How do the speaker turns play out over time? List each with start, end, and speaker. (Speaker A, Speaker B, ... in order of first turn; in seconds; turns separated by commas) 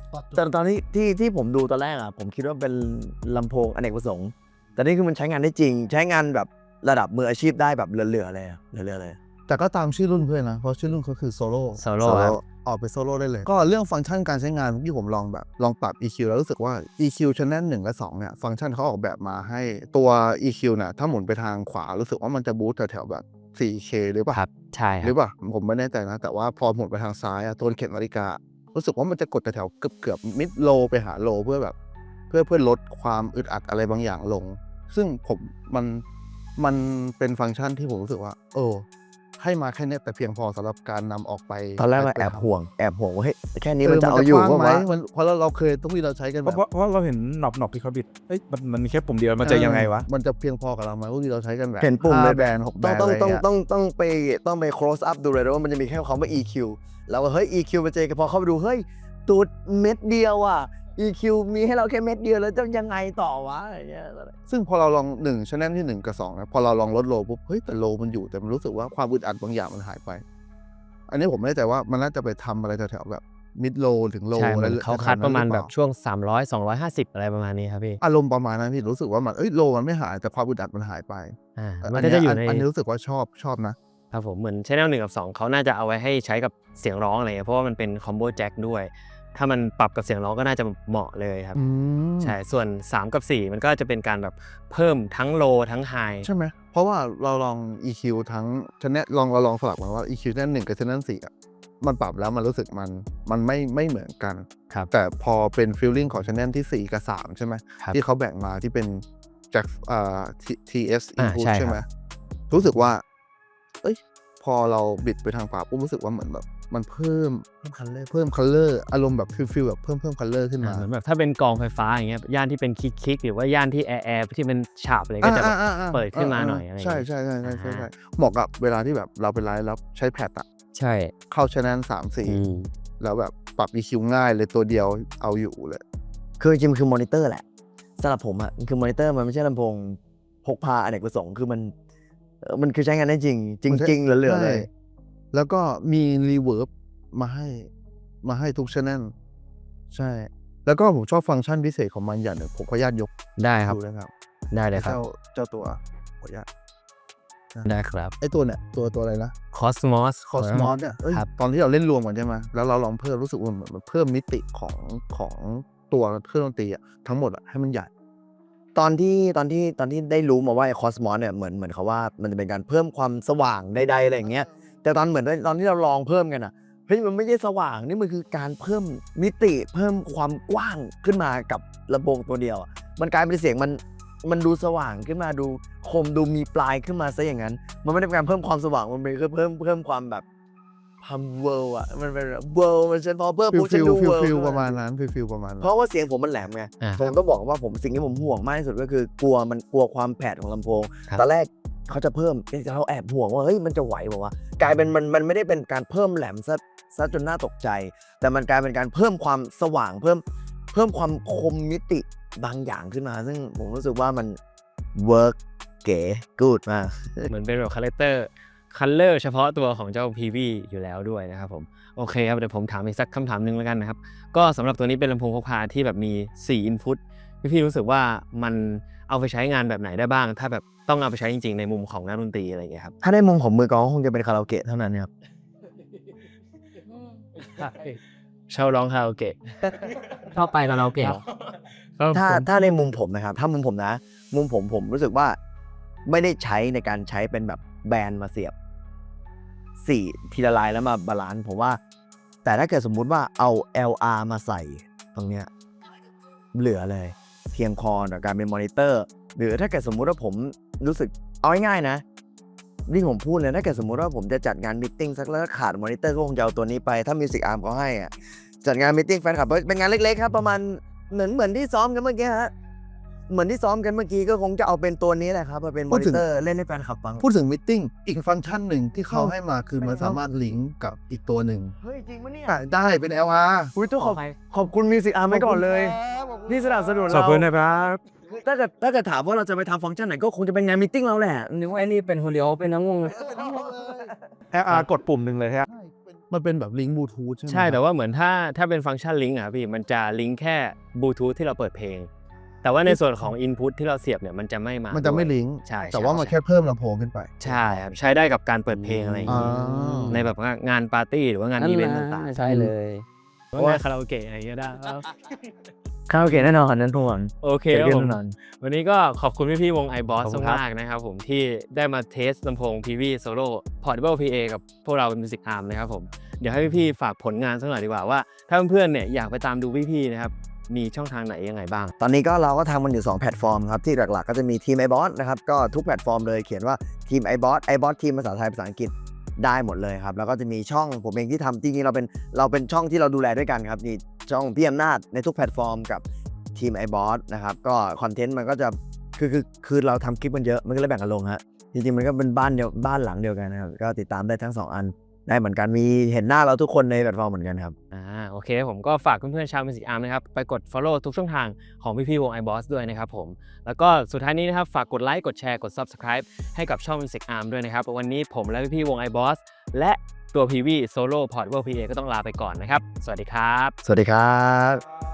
Speaker A: 0.4-9.2, Speaker B: 9.5-24.4, Speaker C: 11.8-12.4, Speaker C: 24.3-25.1, Speaker B: 25.0-31.8, Speaker B: 32.3-36.0, Speaker B: 36.6-38.9, Speaker B: 39.4-42.5, Speaker A: 41.8-44.8, Speaker B: 43.8-46.6, Speaker D: 46.4-50.1, Speaker B: 49.4-53.5, Speaker A: 51.8-64.3, Speaker B: 64.5-70.2, Speaker B: 71.1-75.7, Speaker C: 74.3-78.0, Speaker B: 78.0-83.8, Speaker C: 81.6-82.7, Speaker C: 84.1-91.6, Speaker B: 91.5-92.4, Speaker C: 92.2-96.3, Speaker B: 96.2-111.9, Speaker C: 111.2-111.8, Speaker B: 112.5-113.0, Speaker B: 113.8-120.9, Speaker C: 120.6-127.9, Speaker B: 125.2-130.5, Speaker E: 130.7-131.1, Speaker B: 131.3-132.4, Speaker E: 132.2-132.7, Speaker B: 133.0-135.8, Speaker A: 136.4-137.4, Speaker A: 138.0-141.7, Speaker A: 142.4-144.7, Speaker B: 143.7-144.7, Speaker B: 145.3-147.7, Speaker B: 148.2-149.1, Speaker B: 149.9-153.1, Speaker C: 153.4-153.8, Speaker B: 153.7-154.1, Speaker C: 154.5-155.0, Speaker B: 154.7-156.5, Speaker C: 157.7-158.1, Speaker B: 158.2-159.3, Speaker C: 159.5-161.3, Speaker B: 160.3-167.9, Speaker A: 168.8-190.2, Speaker A: 191.0-194.8, Speaker B: 193.5-195.7, Speaker A: 195.6-214.4, Speaker C: 196.8-197.1, Speaker A: 214.9-217.3, Speaker C: 217.3-232.9, Speaker A: 233.0-235.1, Speaker C: 238.5-239.4, Speaker C: 240.3-241.2, Speaker C: 242.0-242.4, Speaker A: 242.1-245.4, Speaker A: 246.1-248.5, Speaker A: 249.8-251.8, Speaker A: 252.4-255.5, Speaker A: 256.5-262.0, Speaker A: 262.9-272.5, Speaker A: 273.3-277.2, Speaker B: 275.9-276.2, Speaker B: 277.2-281.8, Speaker A: 279.8-280.2, Speaker A: 281.8-282.6, Speaker B: 282.5-283.8, Speaker A: 283.8-287.5, Speaker E: 284.0-284.3, Speaker B: 285.3-287.1, Speaker D: 287.1-288.0, Speaker A: 288.2-291.8, Speaker E: 291.9-293.1, Speaker B: 293.1-294.1, Speaker D: 294.5-295.7, Speaker B: 295.7-297.8, Speaker C: 297.5-302.1, Speaker C: 302.6-306.4, Speaker B: 302.9-303.3, Speaker B: 304.9-307.4, Speaker C: 307.4-312.4, Speaker E: 307.5-307.8, Speaker E: 308.7-310.3, Speaker B: 309.3-310.3, Speaker E: 311.6-313.1, Speaker A: 312.4-312.7, Speaker C: 313.5-315.1, Speaker A: 313.6-313.8, Speaker A: 316.1-318.3, Speaker C: 317.4-331.9, Speaker E: 320.2-320.6, Speaker A: 332.0-346.0, Speaker A: 346.6-357.8, Speaker C: 357.9-373.8, Speaker A: 373.8-374.8